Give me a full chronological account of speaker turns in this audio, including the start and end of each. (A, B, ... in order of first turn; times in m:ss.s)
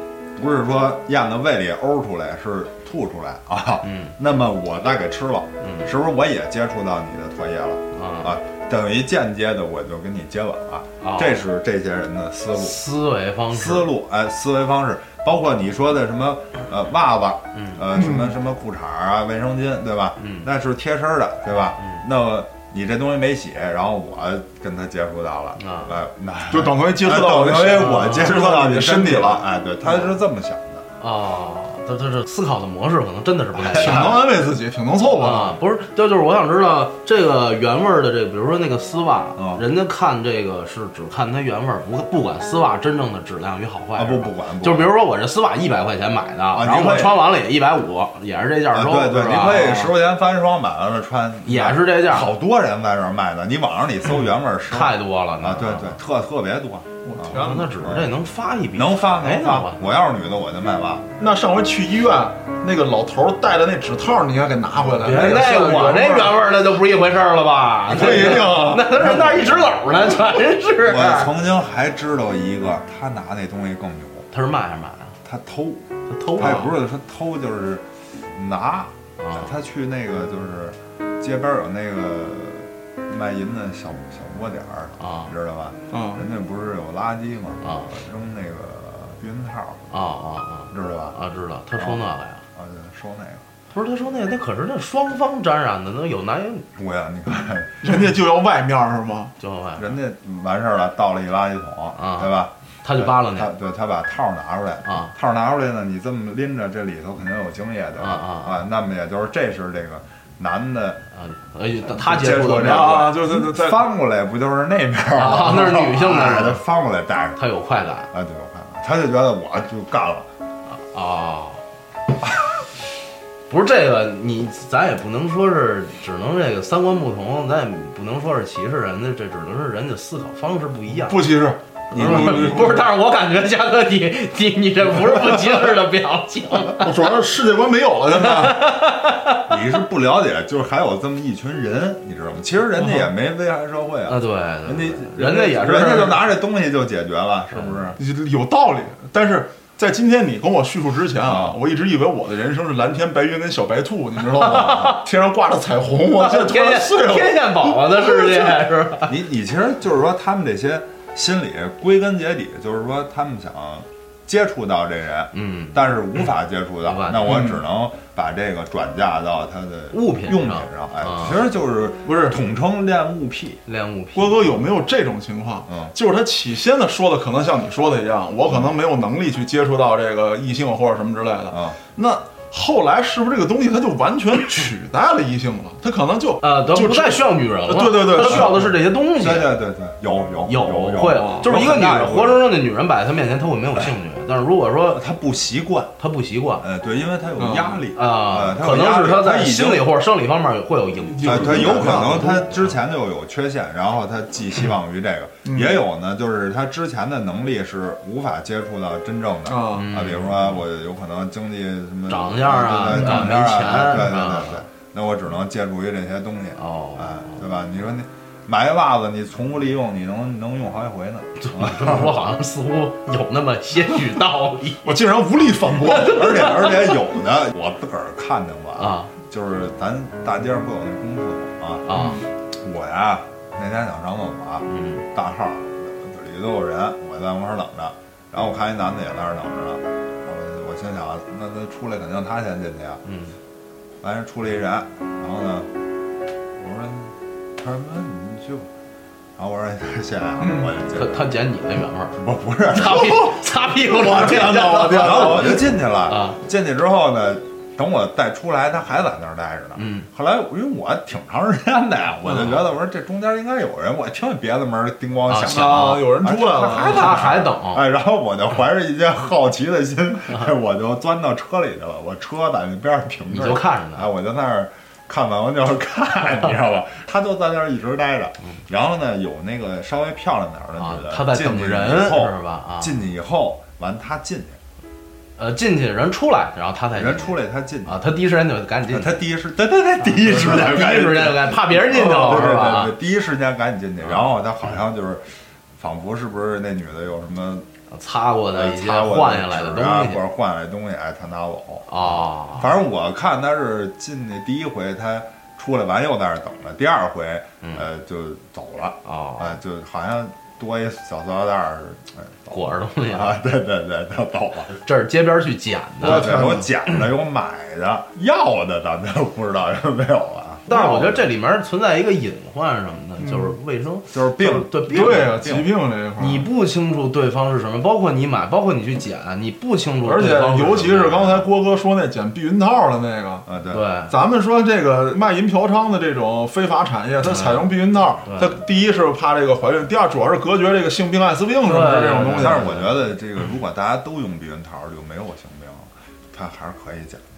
0:00.3-0:12.8 A
0:03.8-0:04.1 B
0:05.6-0:05.9 B
0:07.9-0:08.3 B
0:11.0-0:11.4 B
0:12.5-0:13.9 B
0:13.5-0:30.8 A
0:17.6-0:17.8 B
0:17.9-0:18.3 C
0:20.2-0:20.5 B
0:21.8-0:22.0 B
0:25.6-0:25.9 B
0:26.5-0:29.4 C
0:27.9-0:28.4 B
0:31.0-0:34.3 B
0:33.7-0:34.2 A
0:33.7-0:35.6 C
0:35.2-0:49.9 B
0:39.4-0:39.6 A
0:44.0-0:45.0 A
0:46.5-0:47.3 A
0:48.7-0:58.2 A
0:51.4-0:52.3 B
0:54.7-0:56.0 B
0:57.0-0:57.8 C
0:57.3-0:59.8 B
0:58.7-1:01.1 A
1:01.2-1:06.4 C
1:05.0-1:11.3 B
1:07.9-1:09.5 C
1:10.8-1:14.3 A
1:14.3-1:15.1 B
1:15.2-1:30.0 A
1:16.1-1:16.6 B
1:16.4-1:16.7 C
1:19.2-1:19.5 B
1:25.0-1:25.3 B
1:25.9-1:26.2 C
1:27.6-1:27.9 B
1:29.9-1:32.4 B
1:30.7-1:31.2 A
1:31.8-1:33.4 A
1:33.7-1:36.7 B
1:36.8-1:37.8 A
1:37.8-1:39.3 C
1:39.4-1:40.0 B
1:39.8-1:51.0 A
1:42.0-1:42.3 B
1:42.8-1:43.5 B
1:44.8-1:45.1 B
1:48.0-1:48.6 B
1:51.1-1:53.1 B
1:51.8-1:57.4 A
1:52.5-1:53.8 C
1:55.1-1:56.6 B
1:57.4-1:58.1 B
1:58.1-2:00.3 A
2:00.7-2:01.6 B
2:03.5-2:11.3 B
2:10.9-2:12.9 C
2:11.9-2:12.8 A
2:11.9-2:17.0 B
2:16.8-2:18.7 C
2:18.1-2:19.6 B
2:19.5-2:28.0 A
2:22.8-2:23.1 C
2:24.0-2:26.2 B
2:27.5-2:27.9 B
2:28.0-2:38.5 C
2:31.2-2:31.6 A
2:34.3-2:35.0 B
2:36.2-2:39.1 B
2:39.0-2:53.6 A
2:45.3-2:45.8 B
2:46.8-2:47.5 B
2:49.9-2:51.4 B
2:52.0-2:52.4 C
2:53.6-2:54.5 B
2:54.1-3:08.7 C
2:55.7-2:55.9 A
3:01.5-3:01.8 A
3:06.4-3:09.5 B
3:08.2-3:12.4 A
3:10.4-3:15.0 B
3:11.1-3:11.5 C
3:14.9-3:15.9 A
3:16.0-3:16.7 B
3:16.6-3:19.9 A
3:17.4-3:17.8 C
3:17.9-3:22.8 B
3:21.0-3:22.2 C
3:21.2-3:42.2 A
3:25.4-3:25.8 C
3:29.4-3:29.9 C
3:29.7-3:30.6 B
3:32.1-3:34.6 B
3:32.9-3:33.3 C
3:36.6-3:37.4 B
3:41.4-3:44.8 B
3:44.8-3:46.3 C
3:45.8-3:52.0 A
3:45.8-3:47.0 B
3:48.8-3:49.1 B
3:51.8-3:52.2 B
3:52.5-4:03.0 A
3:54.6-3:55.0 B
4:03.0-4:03.3 B
4:04.0-4:05.7 A
4:06.6-4:08.7 A
4:09.4-4:11.3 A
4:10.4-4:10.7 C
4:10.9-4:12.2 B
4:12.2-4:13.4 A
4:12.7-4:16.4 B
4:13.9-4:15.6 C
4:14.9-4:44.6 A
4:19.8-4:20.1 B
4:22.2-4:22.6 C
4:25.2-4:26.1 B
4:25.4-4:27.2 C
4:26.8-4:27.8 B
4:33.3-4:34.1 B
4:40.8-4:43.0 B
4:45.4-4:49.2 B
4:46.9-4:48.0 A
4:48.9-4:57.7 A
4:50.1-4:52.9 B
4:57.9-5:00.2 B
4:58.5-5:14.8 A
5:01.9-5:02.7 B
5:09.0-5:09.6 B
5:12.5-5:13.4 B
5:14.7-5:16.3 B
5:16.0-5:16.7 C
5:16.0-5:20.9 A
5:20.7-5:25.4 B
5:20.7-5:21.2 C
5:23.2-5:23.6 C
5:24.1-5:25.7 A
5:24.9-5:26.5 C
5:26.2-5:31.5 B
5:30.0-5:33.5 C
5:33.4-5:33.8 A
5:33.7-5:34.1 B
5:34.1-5:42.7 C
5:37.2-5:37.7 B
5:38.2-5:38.6 B
5:41.6-5:42.9 B
5:42.3-5:47.2 A